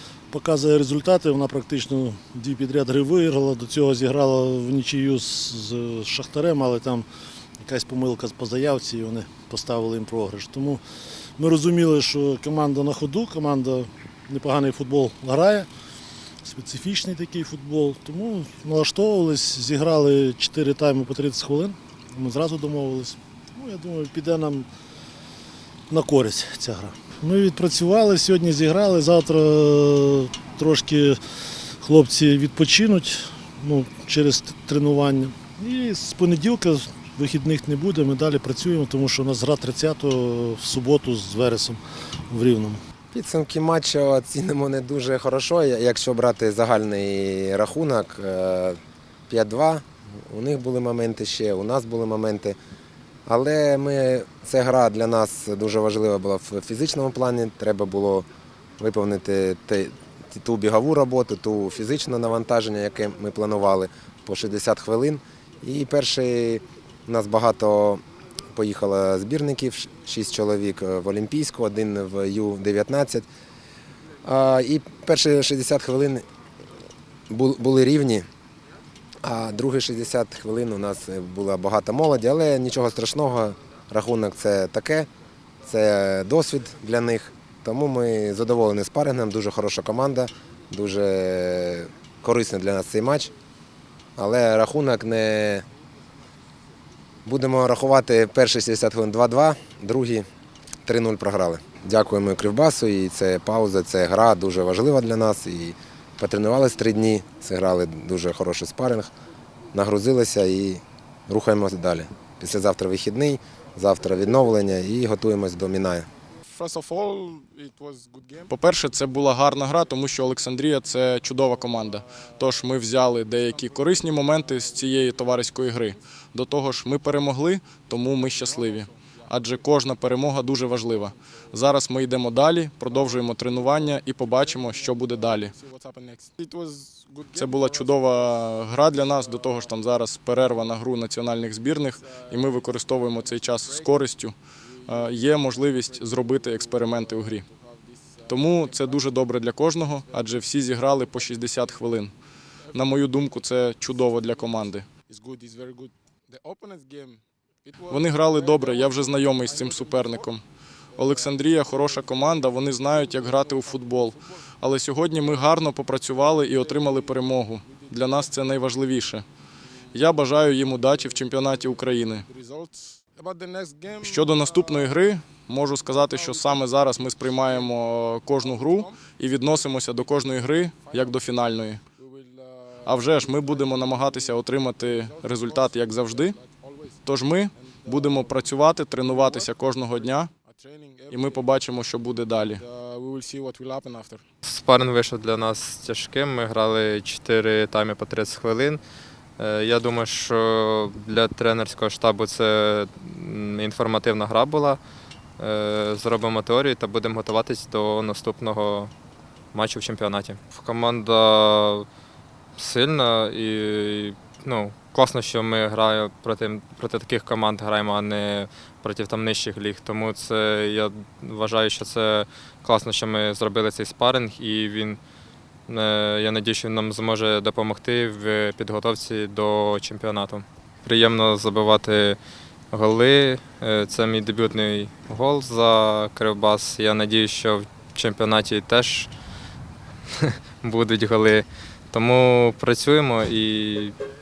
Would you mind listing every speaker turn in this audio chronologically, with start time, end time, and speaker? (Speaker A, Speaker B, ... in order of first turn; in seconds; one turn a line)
Speaker A: 0.3-7.1
Speaker A: 7.6-10.8
Speaker A: 11.4-15.7
Speaker A: 16.4-24.7
Speaker A: 25.9-31.2
Speaker A: 31.8-42.8
Speaker B: 43.1-52.6
Speaker B: 53.3-58.3
Speaker B: 58.8-68.0
Speaker B: 68.5-73.3
Speaker B: 74.2-76.2
Speaker B: 77.3-78.3
Speaker B: 79.2-85.1
Speaker B: 85.7-93.3
Speaker B: 94.2-95.7
Speaker B: 97.3-100.3
Speaker B: 100.9-109.1
Speaker B: 109.7-116.1
Speaker C: 116.5-118.5
Speaker D: 118.5-135.5
Speaker C: 121.5-122.1
Speaker C: 123.3-125.9
Speaker C: 128.2-129.8
Speaker C: 130.5-131.1
Speaker C: 132.9-139.8
Speaker D: 137.3-144.4
Speaker C: 141.7-144.1
Speaker C: 144.7-149.2
Speaker D: 144.9-147.4
Speaker D: 148.3-152.1
Speaker C: 150.0-150.4
Speaker C: 151.0-151.8
Speaker D: 152.7-154.9
Speaker C: 152.7-160.3
Speaker D: 157.9-160.4
Speaker D: 160.9-169.3
Speaker C: 161.0-164.2
Speaker C: 166.2-168.5
Speaker C: 169.9-175.0
Speaker D: 169.9-172.2
Speaker D: 174.0-181.8
Speaker C: 175.8-177.8
Speaker C: 178.4-181.2
Speaker C: 182.0-187.0
Speaker D: 182.8-186.4
Speaker D: 187.1-190.3
Speaker C: 187.6-191.5
Speaker D: 191.1-192.6
Speaker C: 192.5-194.2
Speaker E: 194.4-198.8
Speaker E: 199.4-204.8
Speaker E: 205.4-208.9
Speaker E: 209.5-211.9
Speaker E: 212.6-225.0
Speaker E: 225.7-232.2
Speaker E: 232.7-239.1
Speaker E: 240.1-243.9